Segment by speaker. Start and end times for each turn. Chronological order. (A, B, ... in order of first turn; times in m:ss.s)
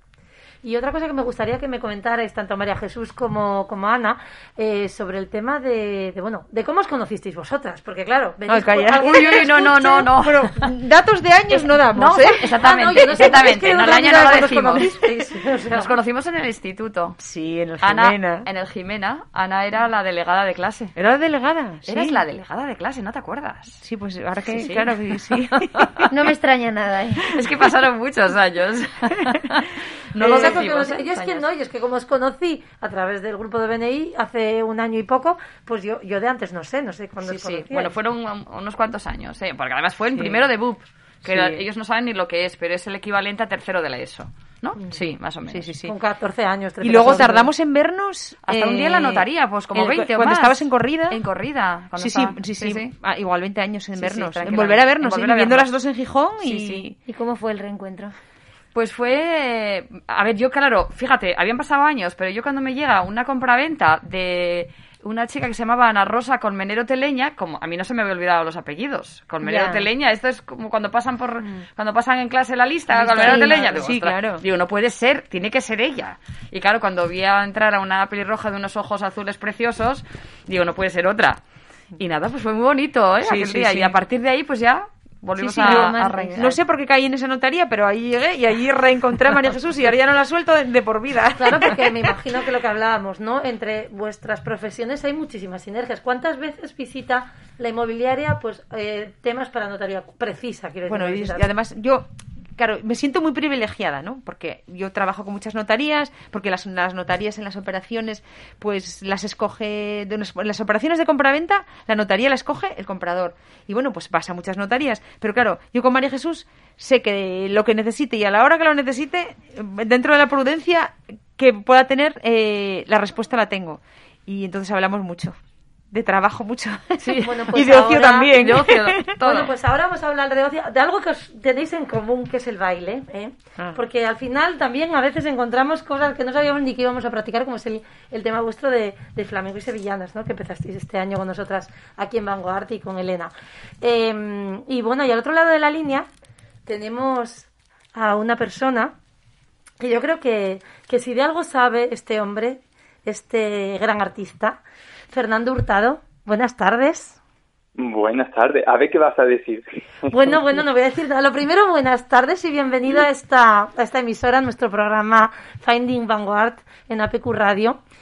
0:00.6-0:09.6 A
0:08.5-0:12.5 B
0:09.0-0:10.7 C
0:11.9-0:14.9 C
0:12.6-0:15.9 A
0:13.2-0:15.0 B
0:15.7-0:17.2 C
0:17.2-0:18.4 B
0:17.8-0:20.9 C
0:21.0-0:22.2 B
0:21.9-0:23.8 C
0:23.8-0:26.1 B
0:24.4-0:26.1 C
0:26.1-0:27.3 D
0:27.3-0:31.5 C
0:30.1-0:30.7 B
0:30.2-0:37.9 A
0:37.2-0:45.7 C
0:40.1-0:40.4 B
0:41.2-0:41.6 B
0:45.5-0:45.9 B
0:45.9-0:47.5 A
0:46.8-0:51.2 B
0:48.4-0:52.9 C
0:52.0-0:56.9 B
0:54.0-0:55.7 C
0:56.4-0:56.9 C
0:57.0-0:58.1 D
0:58.7-1:21.4 C
1:09.4-1:09.8 B
1:12.9-1:14.4 B
1:22.0-1:26.5 C
1:23.2-1:24.0 B
1:25.4-1:32.1 B
1:25.6-1:26.5 D
1:31.4-1:41.4 A
1:40.8-2:05.4 B
2:05.9-2:09.1 B
2:07.0-2:07.6 C
2:07.2-2:08.4 A
2:08.3-2:09.5 C
2:09.2-2:26.1 A
2:26.6-2:28.9 A
2:29.8-2:37.2 A
2:37.8-2:40.1 E
2:40.1-2:47.8 A